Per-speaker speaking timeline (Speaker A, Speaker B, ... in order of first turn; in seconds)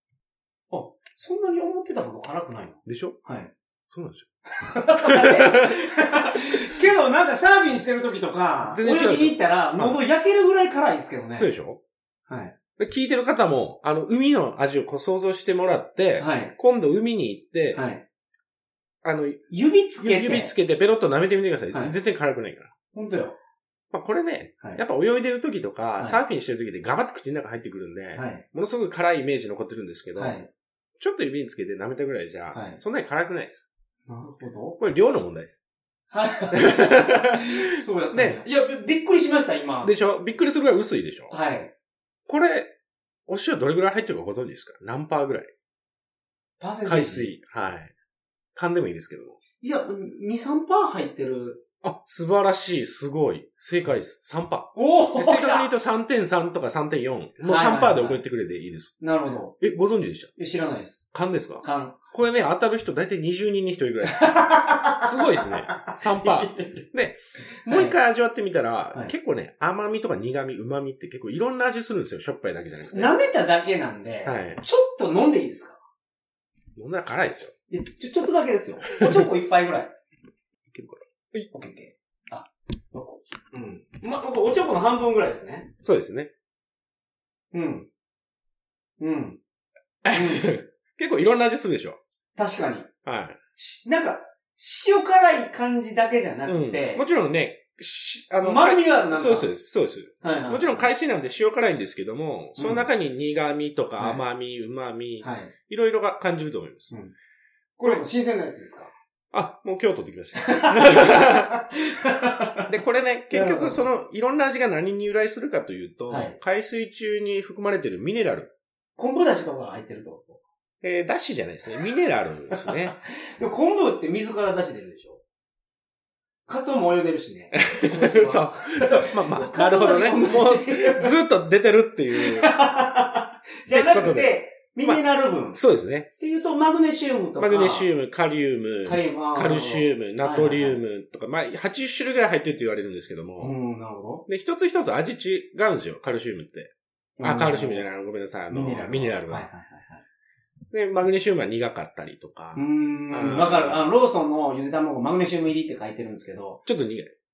Speaker A: 0.7-3.5, 4.5-11.5, 12.3-12.6, 16.2-16.5, 17.7-18.0, 19.5-20.5, 22.9-23.4, 28.1-28.4, 30.2-30.5, 32.5-32.8, 34.1-34.8, 36.1-39.9, 41.3-41.7, 46.6-47.3, 49.6-51.6, 54.8-55.8, 57.4-58.2, 59.0-59.5, 60.4-61.1, 61.6-62.0, 64.1-66.8, 67.6-68.0, 72.8-75.8, 77.7-79.9, 81.5-85.7, 87.5-87.9, 89.0-89.4, 90.1-90.5, 92.3-92.9, 93.6-97.0, 98.4-99.5, 100.2-100.9, 102.6-102.9, 105.2-105.5, 107.8-108.9, 110.4-112.7, 113.3-113.8, 116.1-116.4, 119.0-120.4, 122.5-125.2, 126.5-131.2, 132.1-135.6, 136.2-137.9, 138.8-140.8, 143.4-144.3, 147.2-147.9, 148.5-150.0, 152.6-156.6
Speaker B: 2.9-3.2, 3.9-4.3, 5.0-5.8, 8.7-10.0, 11.4-11.8, 12.8-17.8, 19.0-19.4, 20.0-22.7, 23.9-30.4, 31.0-33.7, 34.8-35.6, 36.5-38.4, 39.8-41.4, 42.3-42.7, 43.3-45.5, 46.8-47.9, 48.5-49.4, 51.8-59.0, 59.6-60.3, 61.1-73.2, 74.2-74.6, 76.8-77.5, 79.0-79.3, 80.7-81.5, 85.8-86.3, 90.0-92.0, 93.0-93.4, 96.5-106.9, 109.3-111.6, 112.7-118.5, 120.8-123.0, 127.5-132.5, 133.7-135.0, 135.5-136.1, 137.4-143.6, 144.3-149.5, 150.7-153.9, 156.7-157.1